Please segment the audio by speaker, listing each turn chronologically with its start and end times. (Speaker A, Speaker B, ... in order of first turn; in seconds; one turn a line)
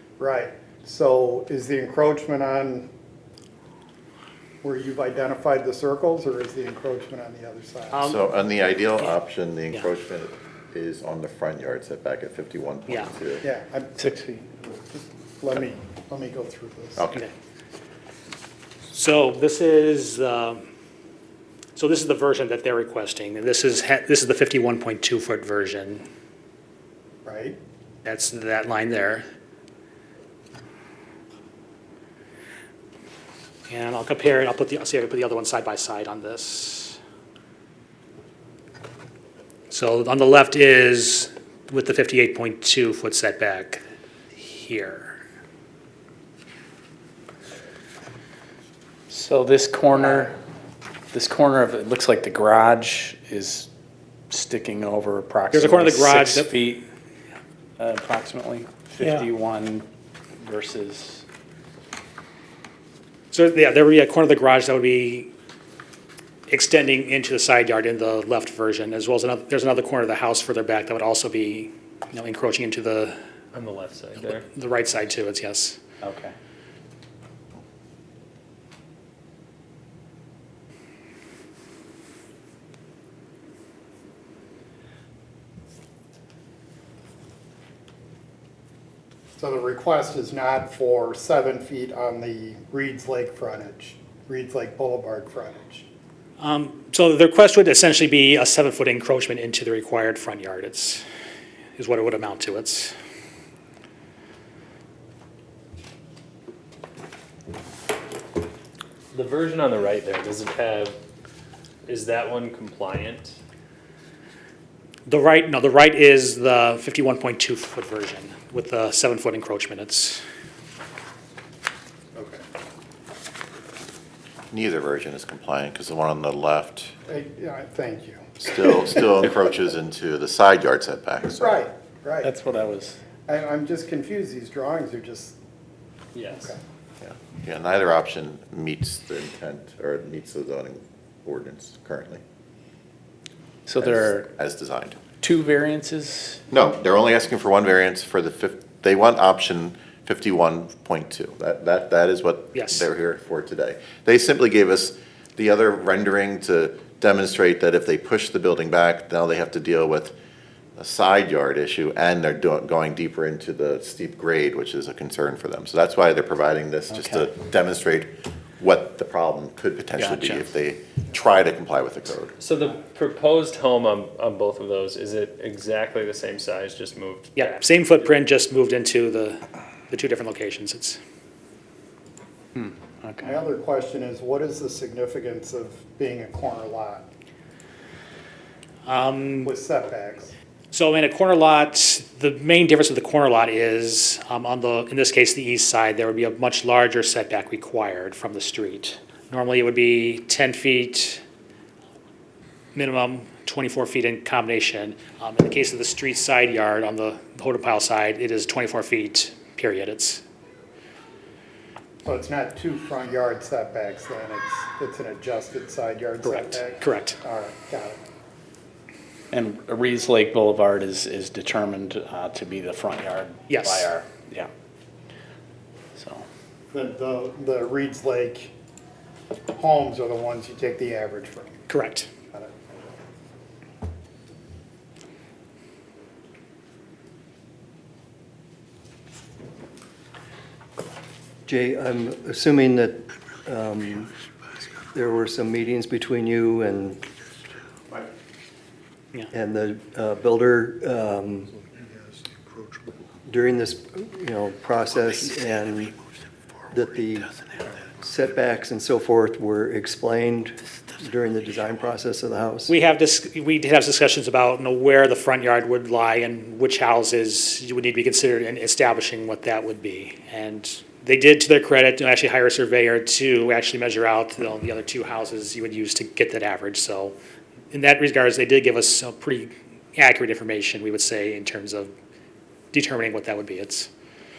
Speaker A: 0.2-2.9
Speaker A: 4.6-8.1
Speaker B: 7.9-8.2
Speaker C: 8.1-13.4
Speaker A: 13.4-14.0
Speaker D: 14.0-14.8
Speaker A: 15.4-17.1
Speaker C: 17.0-17.3
Speaker B: 18.9-20.6
Speaker B: 21.8-26.1
Speaker A: 27.2-27.6
Speaker B: 28.1-29.2
Speaker B: 33.7-37.0
Speaker B: 39.7-43.8
Speaker B: 44.4-45.2
Speaker D: 49.1-50.4
Speaker D: 51.1-53.7
Speaker D: 54.3-56.9
Speaker B: 55.5-56.5
Speaker D: 57.8-59.9
Speaker D: 60.4-61.2
Speaker B: 63.3-65.3
Speaker B: 66.5-73.2
Speaker E: 73.5-74.5
Speaker B: 74.5-75.8
Speaker D: 76.0-76.3
Speaker A: 89.4-95.9
Speaker B: 96.4-101.0
Speaker B: 101.8-102.9
Speaker E: 109.1-111.0
Speaker E: 111.9-113.4
Speaker B: 115.1-120.2
Speaker A: 122.2-122.4
Speaker C: 124.5-126.9
Speaker A: 127.1-129.0
Speaker C: 128.4-131.5
Speaker A: 131.3-132.3
Speaker D: 132.2-133.0
Speaker A: 133.3-135.4
Speaker E: 136.1-136.5
Speaker A: 136.3-136.6
Speaker C: 137.0-142.2
Speaker D: 143.7-144.3
Speaker C: 143.8-145.0
Speaker D: 145.2-146.4
Speaker C: 146.5-160.2
Speaker B: 152.5-152.9
Speaker C: 160.8-172.3
Speaker D: 166.9-167.3
Speaker D: 170.0-170.4
Speaker E: 172.4-177.6
Speaker B: 177.4-181.0
Speaker D: 182.6-183.4
Speaker A: 183.2-187.1
Speaker B: 188.8-189.5
Speaker A: 189.4-190.3
Speaker B: 190.7-201.2
Speaker B: 202.8-210.2
Speaker A: 212.0-218.0
Speaker B: 216.2-217.2
Speaker D: 219.3-224.5
Speaker B: 223.5-223.9
Speaker D: 226.0-226.2
Speaker A: 226.7-228.5
Speaker A: 229.5-231.6
Speaker B: 231.7-232.1
Speaker F: 241.5-244.1
Speaker F: 244.9-247.1
Speaker F: 249.3-251.6
Speaker F: 253.3-256.0
Speaker F: 256.7-257.4
Speaker F: 257.9-262.7
Speaker B: 262.7-277.2
Speaker B: 277.7-281.9
Speaker B: 282.7-283.9